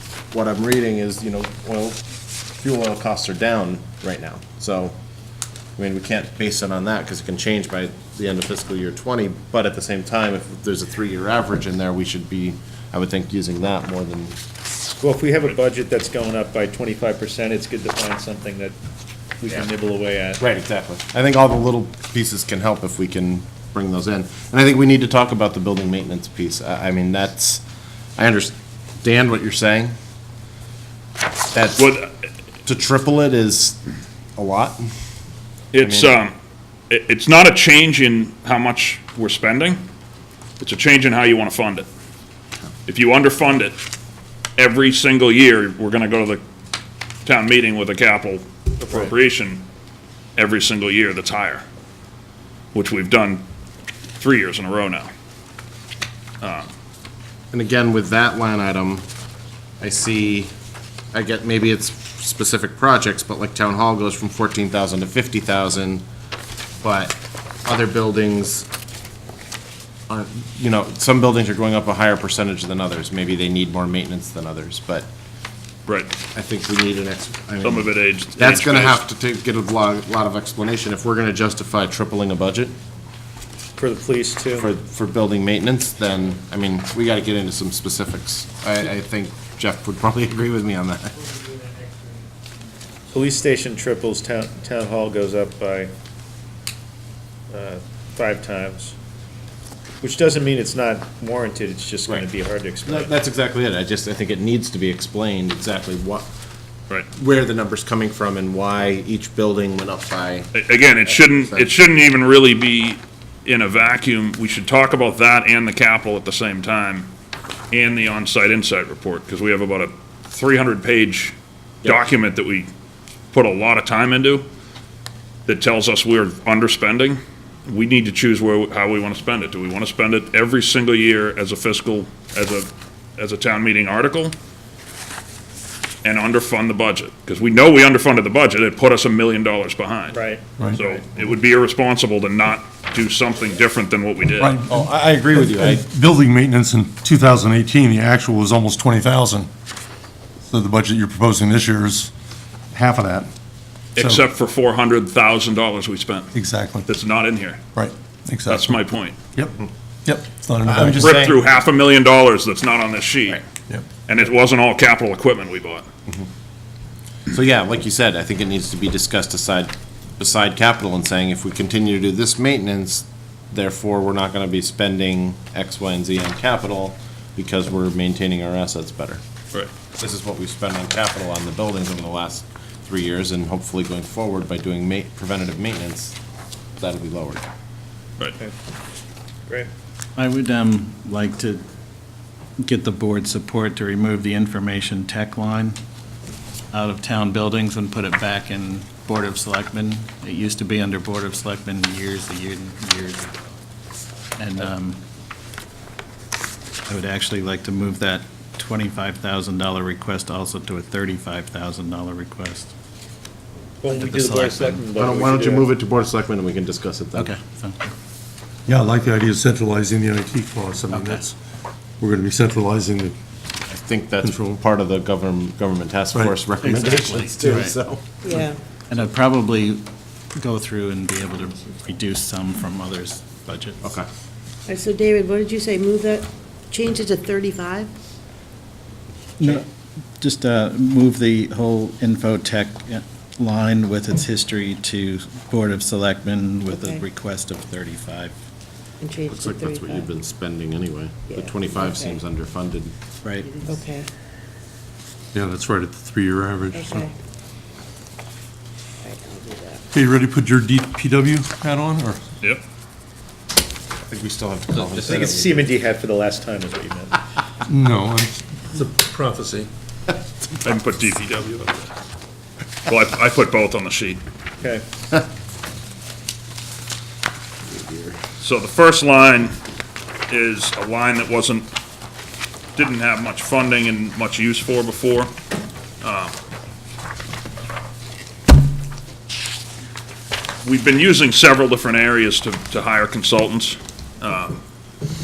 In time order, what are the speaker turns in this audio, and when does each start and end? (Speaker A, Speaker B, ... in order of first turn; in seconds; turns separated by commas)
Speaker A: 0.3-2.0, Speaker A: 2.6-4.9, Speaker A: 5.8-14.3, Speaker B: 15.0-18.7, Speaker B: 19.4-20.4, Speaker A: 20.4-27.6, Speaker A: 28.2-29.9, Speaker A: 31.5-31.9, Speaker C: 31.8-32.1, Speaker A: 32.6-33.8, Speaker A: 34.4-34.9, Speaker C: 35.7-36.3, Speaker A: 35.8-36.1, Speaker C: 36.9-39.8, Speaker C: 40.6-41.9, Speaker C: 42.9-43.7, Speaker C: 44.6-46.4, Speaker C: 47.2-49.6, Speaker C: 50.4-51.6, Speaker C: 52.7-53.4, Speaker C: 54.2-55.1, Speaker C: 56.4-56.7, Speaker A: 57.5-59.0, Speaker A: 59.8-60.5, Speaker A: 61.1-66.0, Speaker A: 66.8-68.7, Speaker A: 70.1-75.1, Speaker C: 75.9-76.1, Speaker A: 76.3-82.7, Speaker C: 77.6-79.0, Speaker B: 83.8-84.7, Speaker A: 84.6-91.2, Speaker B: 93.1-95.9, Speaker B: 97.5-98.9, Speaker B: 100.0-103.1, Speaker A: 102.8-106.3, Speaker A: 107.1-110.5, Speaker C: 110.5-117.1, Speaker A: 111.1-111.7, Speaker C: 117.7-122.7, Speaker A: 121.8-122.1, Speaker C: 123.3-124.5, Speaker C: 125.5-134.3, Speaker C: 136.0-140.2, Speaker B: 140.1-141.0, Speaker C: 140.7-144.6, Speaker D: 144.4-149.5, Speaker A: 144.7-145.8, Speaker D: 150.4-152.1, Speaker D: 152.7-153.3, Speaker C: 153.9-156.3, Speaker D: 154.0-154.2, Speaker D: 156.3-156.9, Speaker C: 156.8-157.6, Speaker D: 157.7-158.8, Speaker C: 158.5-159.2, Speaker D: 159.3-161.2, Speaker A: 160.6-161.4, Speaker C: 160.9-163.4, Speaker C: 164.1-165.9, Speaker A: 167.3-179.2, Speaker A: 180.0-186.2, Speaker A: 186.8-187.4, Speaker E: 190.2-191.6, Speaker E: 192.6-195.8, Speaker E: 196.7-203.3, Speaker E: 204.4-205.0, Speaker E: 206.9-212.7, Speaker B: 213.8-215.7, Speaker E: 213.9-214.8, Speaker A: 215.0-217.3, Speaker E: 217.1-217.9, Speaker D: 218.7-221.3, Speaker E: 220.9-221.2, Speaker D: 222.0-223.2, Speaker A: 223.7-228.2, Speaker D: 226.1-227.0, Speaker E: 226.6-227.7, Speaker F: 228.2-228.6, Speaker E: 228.9-233.9, Speaker A: 233.8-234.1, Speaker F: 234.7-237.9, Speaker E: 239.4-239.7, Speaker E: 240.2-248.3, Speaker F: 246.7-247.1, Speaker F: 249.0-250.1, Speaker A: 249.3-252.9, Speaker F: 251.3-252.2, Speaker E: 253.2-253.5, Speaker F: 253.4-254.1, Speaker D: 255.3-257.1, Speaker F: 256.7-257.1, Speaker F: 259.0-259.8, Speaker D: 259.9-262.2, Speaker A: 264.1-265.7, Speaker B: 265.0-267.1, Speaker D: 267.6-269.7, Speaker C: 270.6-271.9, Speaker C: 272.9-274.2, Speaker A: 277.7-278.2, Speaker C: 278.4-279.5, Speaker C: 280.3-281.7, Speaker C: 282.7-285.3, Speaker C: 286.0-286.3, Speaker C: 290.6-294.6